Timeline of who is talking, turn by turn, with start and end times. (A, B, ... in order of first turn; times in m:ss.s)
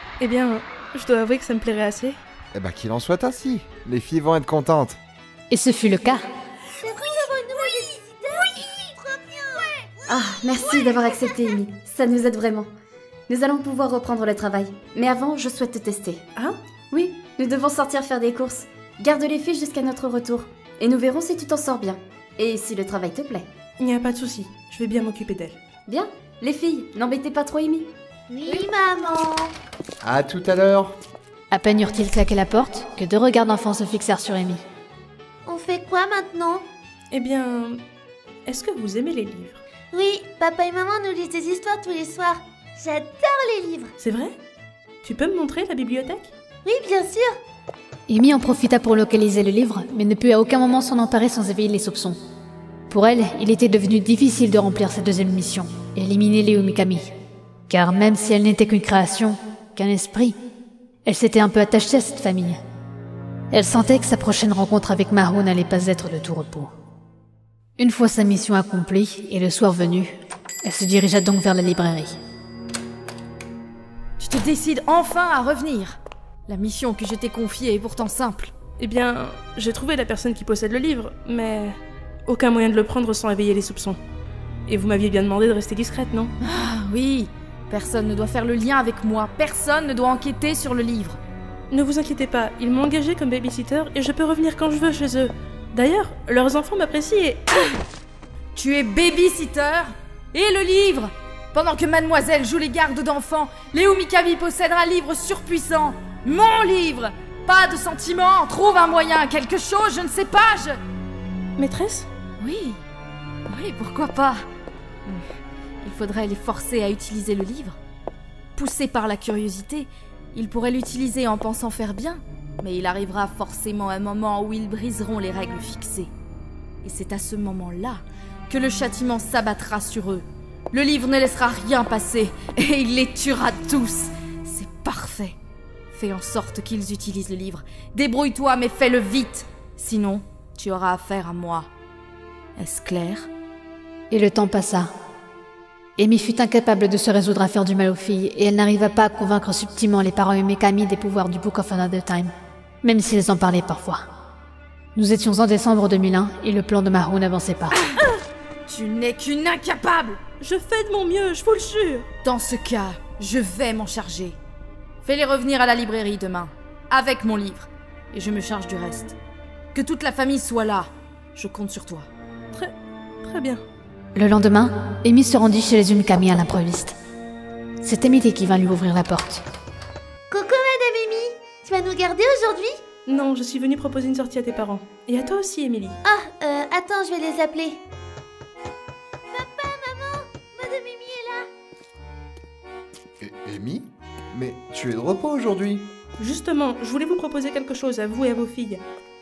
0:00.2-0:02.2 A
0:02.5-0:05.0 B
0:05.5-0:06.3 C
0:06.8-0:10.1 D
0:10.1-0:12.7 E
0:13.3-0:16.2 E
0:16.9-0:23.5 E
0:23.8-0:25.6 A
0:25.9-0:27.9 E
0:28.3-0:29.5 D
0:30.0-0:31.0 B
0:31.5-0:34.6 C
0:35.5-0:36.6 D
0:37.1-0:37.8 A
0:38.5-0:39.6 A
0:39.9-0:43.9 D
0:44.0-0:44.4 A
0:45.0-0:46.3 A
0:46.6-0:47.4 D
0:48.1-0:52.2 C
0:52.9-0:57.1 C
0:57.7-1:00.4 C
1:01.1-1:02.6 C
1:03.5-1:06.7 C
1:07.8-1:12.2 C
1:14.2-1:18.5 F
1:18.8-1:24.0 A
1:24.7-1:26.3 A
1:26.4-1:31.2 F
1:31.7-1:37.5 A
1:38.6-1:50.8 F
1:51.6-1:52.1 A
1:52.4-1:52.8 F
1:53.5-1:54.5 F
1:55.8-1:57.8 F
1:58.6-2:06.1 F
2:06.8-2:15.4 F
2:15.9-2:21.7 F
2:22.6-2:23.3 F
2:24.1-2:24.9 C
2:26.0-2:34.1 C
2:35.0-2:37.8 C
2:38.7-2:40.2 F
2:40.4-2:42.1 A
2:42.2-2:44.4 F
2:45.0-2:49.2 F
2:49.7-2:52.1 F
2:52.5-2:53.6 A
2:54.2-2:57.0 C
2:57.8-2:59.4 C
3:00.3-3:02.8 D
3:03.1-3:06.0 A
3:06.0-3:07.8 D
3:09.3-3:11.5 D
3:13.2-3:15.9 B
3:16.2-3:18.8 A